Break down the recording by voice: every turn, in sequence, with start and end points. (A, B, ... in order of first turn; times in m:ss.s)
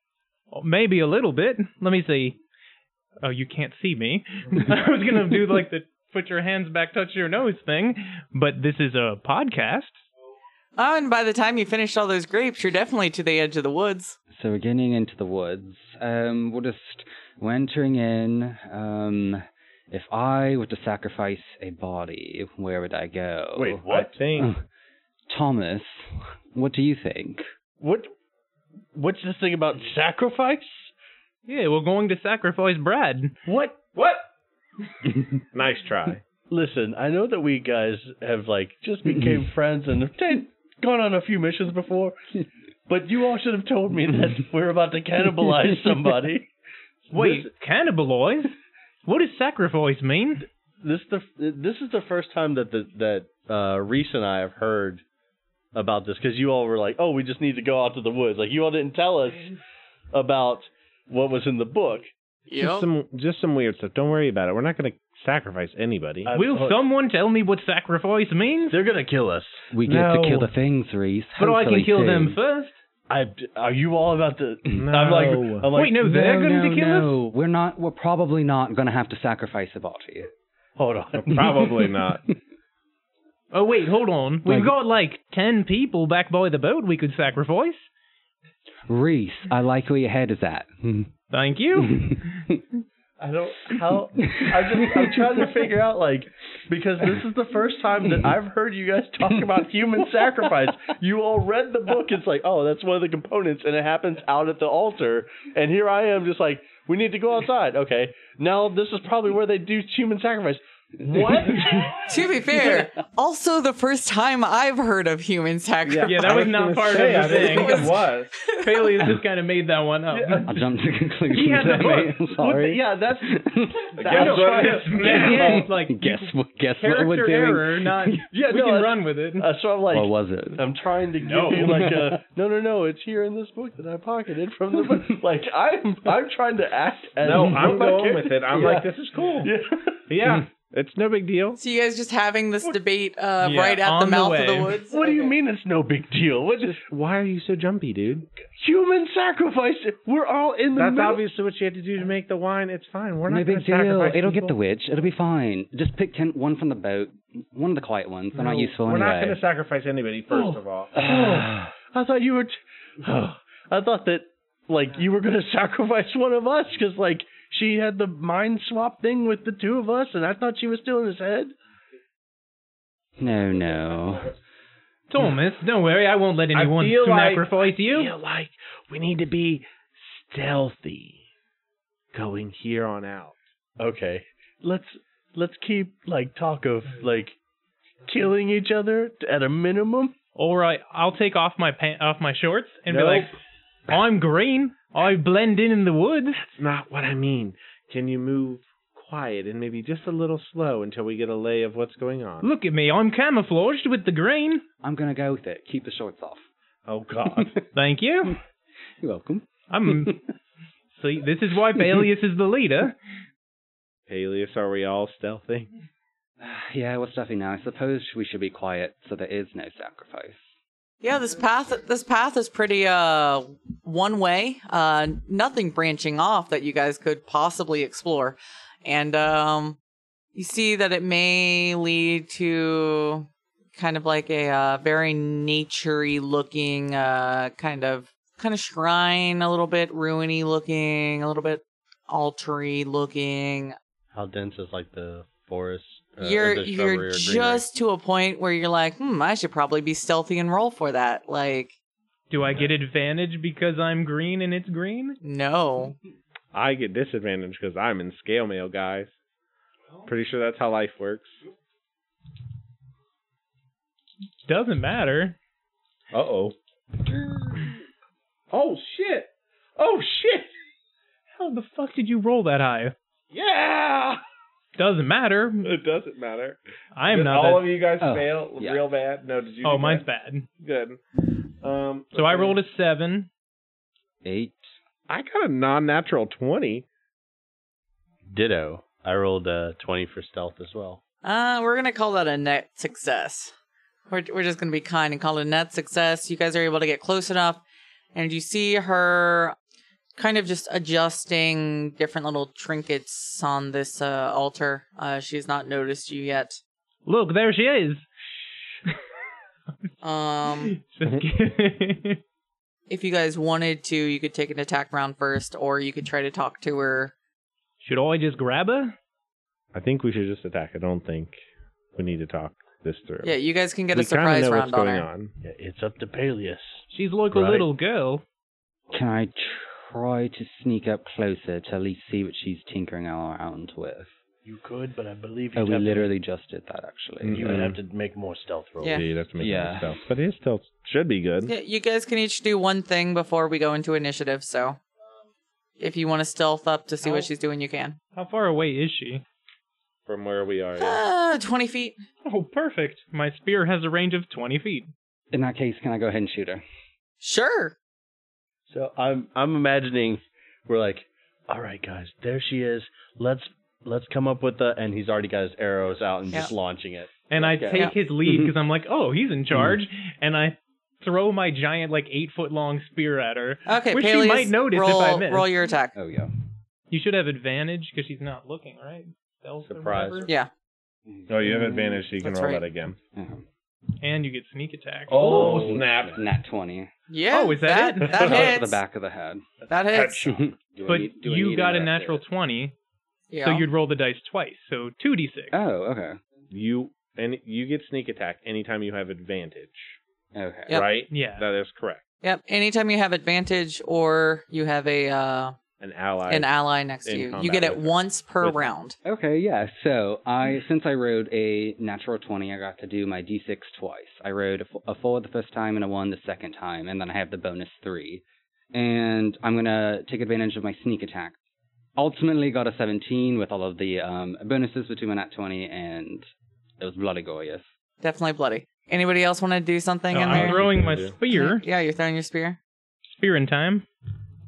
0:00.5-0:02.4 A
0:03.2-0:10.0 A
0:10.8-0:14.2 B
0:14.3-0:23.8 C
0:23.6-0:24.2 D
0:23.9-0:24.5 E
0:24.4-0:24.6 C
0:25.3-0:27.4 C
0:27.8-0:28.1 D
0:28.9-0:30.9 D
0:31.5-0:33.3 A
0:33.4-0:33.8 D
0:33.9-0:34.2 E
0:35.5-0:36.2 E
0:36.5-0:42.2 D
0:39.1-0:39.4 C
0:42.9-0:46.5 D
0:47.1-0:47.5 D
0:47.1-0:48.5 A
0:49.0-0:50.4 A
0:50.4-0:55.0 D
0:55.7-0:59.5 D
1:00.1-1:02.1 D
1:02.5-1:02.9 B
1:02.6-1:06.3 E
1:06.2-1:06.8 D
1:06.3-1:08.8 A
1:08.7-1:09.7 D
1:09.7-1:12.4 C
1:09.8-1:10.5 E
1:11.4-1:12.7 A
1:13.1-1:16.0 D
1:14.7-1:15.7 E
1:15.7-1:17.1 A
1:16.0-1:20.3 C
1:20.8-1:21.9 D
1:21.2-1:22.2 E
1:23.5-1:27.9 A
1:24.4-1:24.7 C
1:28.9-1:31.1 C
1:31.3-1:32.3 A
1:31.8-1:32.6 C
1:33.2-1:52.0 D
1:34.2-1:35.2 C
1:52.0-1:56.4 B
1:55.8-1:58.3 E
1:56.1-1:58.0 A
1:57.2-1:58.9 B
1:58.5-2:00.6 A
2:00.1-2:00.6 D
2:00.5-2:03.9 C
2:01.3-2:02.2 A
2:02.4-2:05.3 D
2:04.0-2:05.7 E
2:04.1-2:09.5 A
2:05.1-2:08.2 C
2:08.3-2:20.0 D
2:09.9-2:10.6 C
2:11.2-2:12.0 A
2:11.7-2:12.1 C
2:17.2-2:19.5 E
2:20.1-2:21.6 E
2:21.6-2:25.3 B
2:23.4-2:24.8 A
2:24.9-2:26.8 D
2:26.6-2:28.3 E
2:28.4-2:31.2 D
2:30.7-2:34.6 E
2:33.3-2:39.4 C
2:38.3-2:41.0 E
2:40.3-2:51.5 D
2:41.0-2:41.7 C
2:53.2-2:54.3 C
2:55.1-2:58.1 A
2:56.5-3:01.2 E
3:02.1-3:03.4 E
3:03.8-3:07.4 D
3:08.1-3:10.1 D
3:10.4-3:13.3 A
3:12.9-3:13.3 D
3:13.9-3:16.4 A
3:16.6-3:22.5 E
3:22.4-3:24.6 A
3:24.8-3:26.4 C
3:26.9-3:27.5 E
3:27.3-3:27.6 C
3:27.7-3:28.4 A
3:29.0-3:30.2 C
3:29.7-3:30.2 A
3:31.0-3:32.9 A
3:34.1-3:35.7 E
3:36.4-3:40.4 C
3:41.0-3:49.8 B
3:50.3-4:03.8 B
4:04.1-4:07.6 D
4:06.2-4:11.7 B
4:12.3-4:15.2 A
4:15.2-4:16.0 B
4:16.5-4:19.1 E
4:20.0-4:21.4 E
4:24.4-4:25.3 A
4:26.1-4:27.7 E
4:28.5-4:30.5 E
4:31.4-4:32.9 A
4:33.3-4:34.2 E
4:34.8-4:35.7 A
4:35.6-4:36.6 E
4:37.0-4:37.6 A
4:37.1-4:40.0 E
4:38.0-4:38.8 C
4:39.6-4:40.4 A
4:40.6-4:42.6 E
4:42.1-4:43.3 A
4:44.2-4:44.6 C
4:45.1-4:46.8 E
4:48.3-4:51.0 D
4:51.2-4:53.5 B
4:54.1-4:57.6 B
4:58.1-4:59.6 B
5:00.2-5:06.6 B
5:07.0-5:08.0 A
5:10.0-5:10.7 B
5:10.7-5:12.2 A
5:12.9-5:17.1 B
5:17.8-5:18.9 A
5:19.7-5:21.4 E
5:21.9-5:23.3 E
5:23.2-5:25.1 B
5:23.9-5:25.3 E
5:25.4-5:27.7 D
5:26.9-5:28.2 A
5:28.9-5:34.1 C
5:34.4-5:36.1 D
5:35.5-5:37.7 C
5:37.2-5:37.8 E
5:37.3-5:39.0 D
5:38.8-5:41.5 E
5:39.4-5:39.9 C
5:41.5-5:44.8 B
5:45.8-5:48.0 B
5:48.2-5:49.2 A
5:50.1-5:51.0 E
5:50.8-5:52.0 B
5:52.2-5:54.9 A
5:55.3-5:56.6 C
5:57.2-5:57.7 B
5:58.7-6:07.8 D
6:07.3-6:15.5 A
6:08.2-6:08.6 C
6:09.5-6:09.8 C
6:13.6-6:15.9 B
6:16.0-6:16.3 C
6:16.9-6:20.3 A
6:19.6-6:20.3 D
6:20.2-6:20.5 B
6:21.1-6:22.0 C
6:21.3-6:23.0 E
6:22.2-6:22.6 B
6:23.1-6:23.4 C
6:24.0-6:25.3 A
6:25.1-6:26.2 E
6:25.2-6:26.2 D
6:25.3-6:26.9 C
6:27.1-6:28.8 B
6:27.3-6:28.3 A
6:28.1-6:29.5 C
6:29.7-6:30.3 B
6:29.7-6:30.4 E
6:30.2-6:32.2 C
6:30.8-6:32.7 A
6:33.3-6:33.7 B
6:33.4-6:35.5 A
6:35.5-6:36.2 C
6:36.5-6:40.0 E
6:40.3-6:40.8 C
6:40.7-6:42.0 E
6:41.1-6:41.4 A
6:42.2-6:45.6 B
6:45.8-6:46.5 E
6:46.3-6:49.0 B
6:47.0-6:48.6 E
6:49.0-7:01.4 C
7:02.0-7:06.2 C
7:06.8-7:07.6 C
7:08.0-7:10.7 B
7:10.1-7:11.6 A
7:10.3-7:11.1 E
7:11.3-7:12.6 B
7:13.1-7:13.8 A